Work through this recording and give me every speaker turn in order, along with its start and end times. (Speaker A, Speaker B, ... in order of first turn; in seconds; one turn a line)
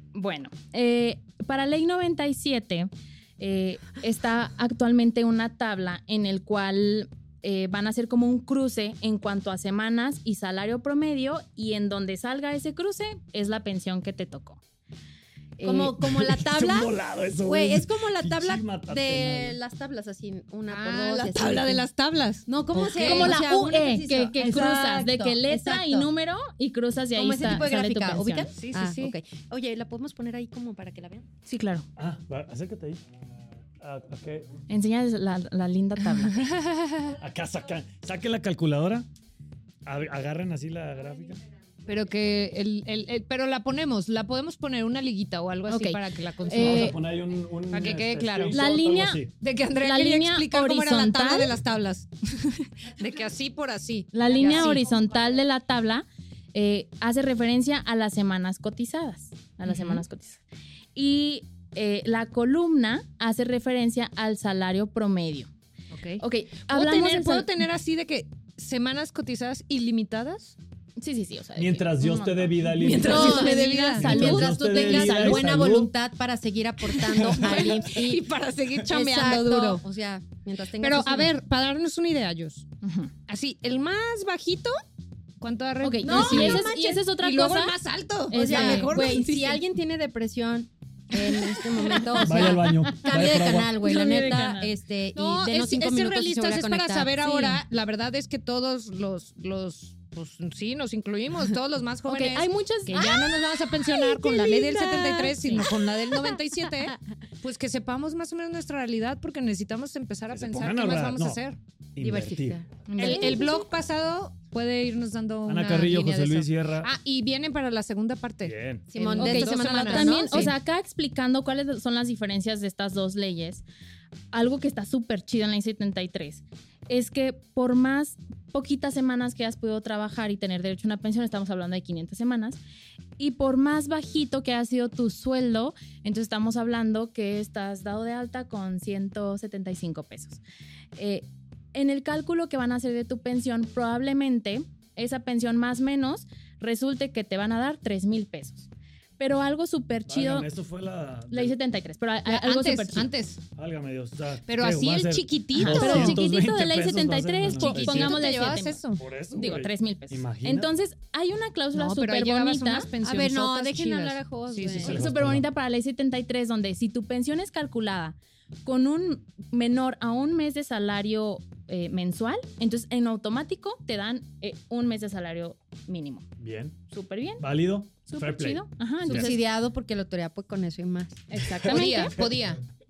Speaker A: 0.1-14.6
Speaker A: 15.6-15.9
Speaker B: 15.6-21.9
Speaker C: 16.0-19.6
Speaker D: 20.7-23.4
Speaker B: 22.5-26.1
Speaker A: 22.9-28.5
Speaker B: 27.1-31.3
Speaker D: 28.5-29.1
Speaker A: 31.4-31.9
Speaker C: 31.9-33.0
Speaker C: 33.8-34.5
Speaker A: 34.7-36.5
Speaker D: 36.4-37.1
Speaker C: 37.2-39.1
Speaker C: 39.8-41.4
Speaker D: 41.8-47.0
Speaker A: 45.7-47.0
Speaker C: 46.5-49.3
Speaker D: 47.7-48.6
Speaker A: 48.5-49.2
Speaker D: 49.4-54.9
Speaker A: 49.8-51.5
Speaker A: 54.1-60.4
Speaker D: 59.6-60.0
Speaker A: 60.9-65.5
Speaker D: 65.9-70.5
Speaker A: 66.2-67.5
Speaker A: 71.0-75.5
Speaker C: 71.6-75.9
Speaker D: 72.7-74.1
Speaker B: 73.0-78.2
Speaker D: 77.2-79.8
Speaker C: 77.2-77.8
Speaker B: 78.8-81.3
Speaker D: 80.8-82.7
Speaker A: 82.8-83.1
Speaker D: 83.3-84.8
Speaker D: 85.4-89.6
Speaker A: 85.8-87.8
Speaker B: 86.0-87.0
Speaker A: 88.3-89.1
Speaker B: 88.3-97.6
Speaker D: 91.4-92.5
Speaker C: 92.2-93.8
Speaker A: 93.8-94.7
Speaker D: 93.9-94.4
Speaker D: 95.1-111.6
Speaker A: 102.1-105.7
Speaker C: 110.3-111.4
Speaker C: 111.9-112.6
Speaker B: 112.0-113.4
Speaker A: 112.9-113.7
Speaker D: 113.0-120.5
Speaker C: 115.5-116.9
Speaker C: 118.4-118.8
Speaker B: 118.9-120.5
Speaker A: 119.2-123.6
Speaker A: 124.3-132.6
Speaker A: 133.2-140.4
Speaker A: 140.9-148.7
Speaker A: 149.2-150.5
Speaker C: 150.1-151.5
Speaker A: 151.3-153.1
Speaker D: 152.2-153.4
Speaker C: 153.6-158.2
Speaker D: 154.5-156.2
Speaker A: 155.6-158.8
Speaker D: 157.5-159.0
Speaker C: 158.9-160.7
Speaker A: 159.3-162.9
Speaker D: 161.7-165.0
Speaker B: 163.0-165.0
Speaker C: 164.8-165.4
Speaker A: 164.8-176.3
Speaker C: 176.4-176.8
Speaker A: 176.9-177.4
Speaker C: 177.4-179.3
Speaker A: 178.0-179.4
Speaker B: 179.1-181.2
Speaker A: 181.3-182.2
Speaker C: 181.4-182.4
Speaker D: 181.7-182.6